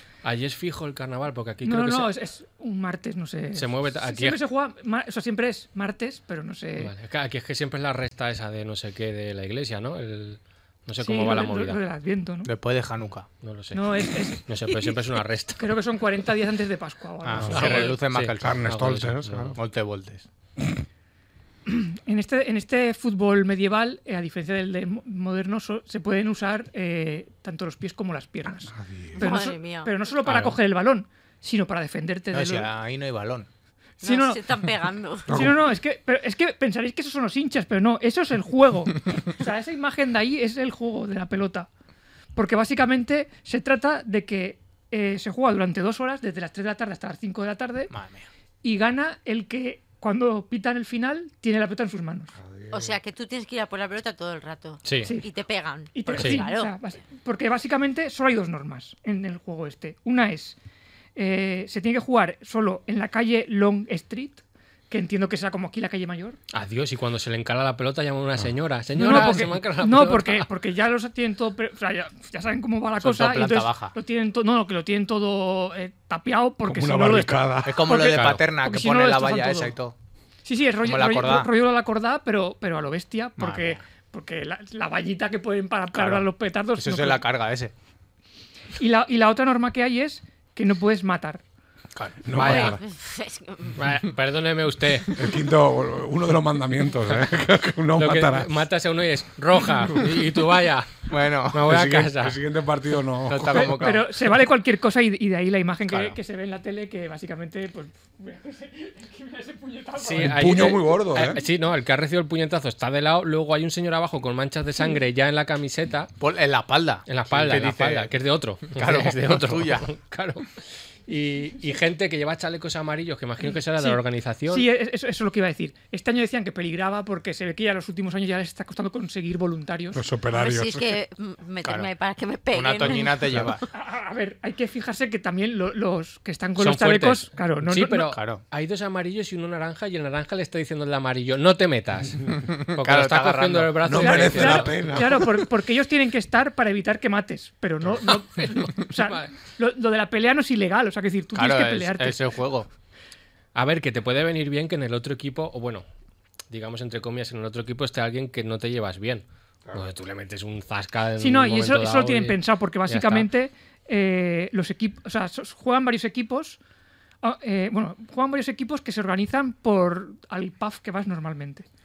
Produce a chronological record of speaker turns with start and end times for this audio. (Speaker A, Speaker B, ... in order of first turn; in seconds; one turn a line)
Speaker A: 0.2-2.1
Speaker B: 1.6-6.9
Speaker A: 3.5-4.4
Speaker A: 6.8-11.8
Speaker B: 11.0-12.5
Speaker C: 12.4-13.3
Speaker A: 13.4-15.7
Speaker B: 13.7-15.0
Speaker B: 15.6-18.0
Speaker C: 17.2-18.8
Speaker A: 17.4-19.6
Speaker D: 18.4-19.6
Speaker C: 19.5-20.2
Speaker B: 21.7-32.7
Speaker D: 28.7-29.3
Speaker E: 29.2-29.9
Speaker A: 30.2-30.6
Speaker C: 32.3-33.5
Speaker B: 34.0-34.4
Speaker E: 34.0-35.3
Speaker D: 35.3-35.6
Speaker B: 35.3-41.7
Speaker B: 42.4-47.9
Speaker C: 47.9-48.3
Speaker B: 48.6-52.3
Speaker D: 52.4-53.0
Speaker E: 52.7-56.7
Speaker A: 54.9-55.2
Speaker B: 55.9-60.6
Speaker A: 56.2-56.4
Speaker B: 61.2-66.4
Speaker A: 66.5-70.5
Speaker B: 69.0-79.7
Speaker C: 73.0-74.0
Speaker D: 76.7-78.0
Speaker C: 77.6-80.0
Speaker A: 78.0-78.4
Speaker B: 80.5-87.2
Speaker C: 80.8-81.5
Speaker C: 83.4-83.8
Speaker C: 85.9-87.7
Speaker B: 88.8-91.4
Speaker C: 92.0-92.2
Speaker D: 92.2-92.8
Speaker A: 92.3-92.8
Speaker E: 92.3-93.8
Speaker A: 93.8-95.2
Speaker D: 95.2-98.6
Speaker A: 98.0-102.4
Speaker C: 101.1-101.8
Speaker D: 101.6-104.0
Speaker C: 103.3-104.1
Speaker B: 103.6-110.8
Speaker C: 105.9-106.2
Speaker A: 110.0-116.1
Speaker D: 110.2-111.4
Speaker C: 116.2-118.1
Speaker A: 117.1-124.7
Speaker C: 118.7-119.9
Speaker B: 123.8-130.0
Speaker D: 129.9-131.0
Speaker E: 130.3-133.5
Speaker C: 131.6-131.9
Speaker C: 132.5-133.7
Speaker B: 133.7-138.1
Speaker A: 136.6-145.0
Speaker C: 138.1-138.4
Speaker C: 142.4-143.9
Speaker D: 143.8-145.5
Speaker B: 143.9-152.3
Speaker A: 148.4-149.3
Speaker C: 151.3-152.7
Speaker A: 153.6-155.8
Speaker A: 156.5-163.3
Speaker B: 161.2-166.6
Speaker B: 167.2-171.7